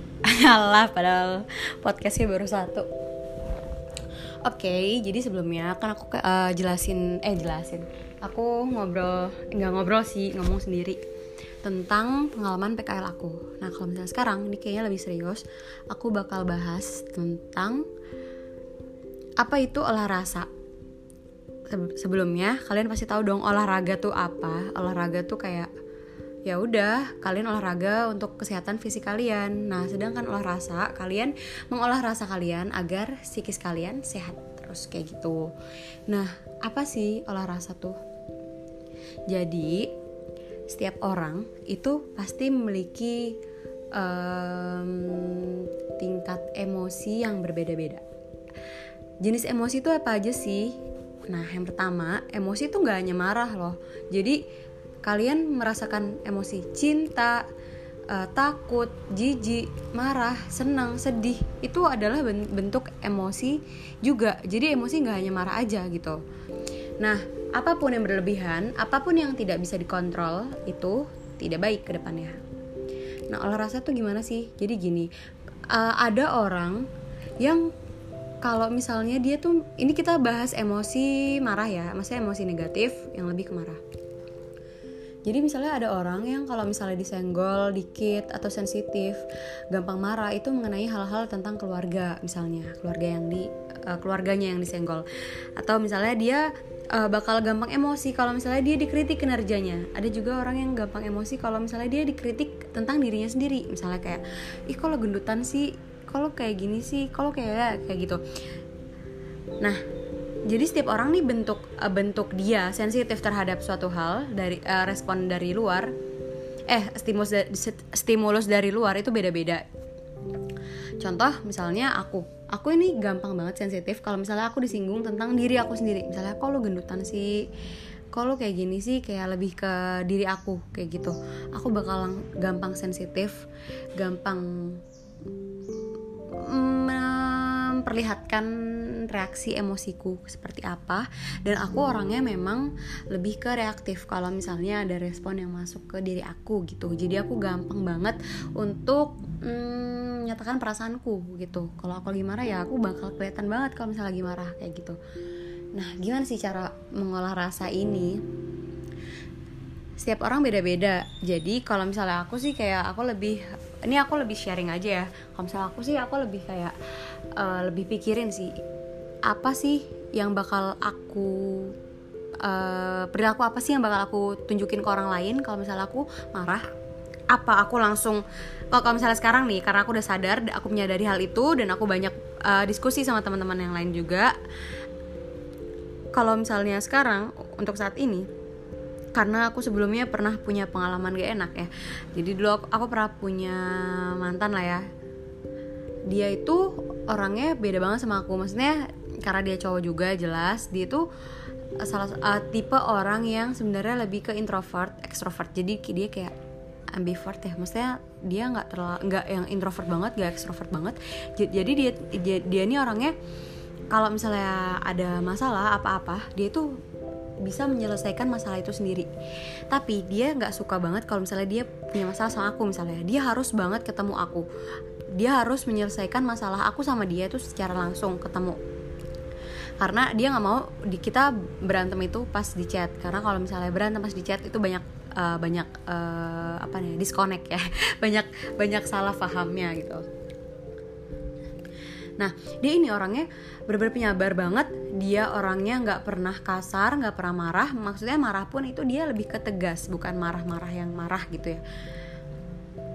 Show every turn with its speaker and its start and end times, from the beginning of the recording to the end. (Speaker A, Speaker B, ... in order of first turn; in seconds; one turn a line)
Speaker A: 0.2-2.9
Speaker A: 4.4-11.0
Speaker A: 11.6-17.9
Speaker A: 19.4-20.5
Speaker A: 21.7-25.7
Speaker A: 26.5-35.5
Speaker A: 36.1-38.0
Speaker A: 39.3-39.9
Speaker A: 40.7-43.4
Speaker A: 44.0-48.0
Speaker A: 49.2-54.4
Speaker A: 55.0-57.5
Speaker A: 58.1-66.2
Speaker A: 67.0-72.4
Speaker A: 73.3-75.1
Speaker A: 75.7-76.9
Speaker A: 77.4-77.7
Speaker A: 78.4-83.8
Speaker A: 85.3-95.1
Speaker A: 95.6-108.2
Speaker A: 110.5-116.0
Speaker A: 116.7-119.7
Speaker A: 121.0-127.5
Speaker A: 128.1-133.4
Speaker A: 134.0-134.8
Speaker A: 136.3-155.0
Speaker A: 155.7-158.2
Speaker A: 160.0-166.8
Speaker A: 167.3-168.5
Speaker A: 169.3-171.8
Speaker A: 172.4-176.7
Speaker A: 177.3-184.4
Speaker A: 186.1-188.3
Speaker A: 189.1-194.8
Speaker A: 196.1-201.1
Speaker A: 201.8-206.3
Speaker A: 206.9-213.2
Speaker A: 213.9-216.8
Speaker A: 217.4-219.1
Speaker A: 219.7-224.5
Speaker A: 225.1-228.6
Speaker A: 229.8-240.1
Speaker A: 242.2-251.6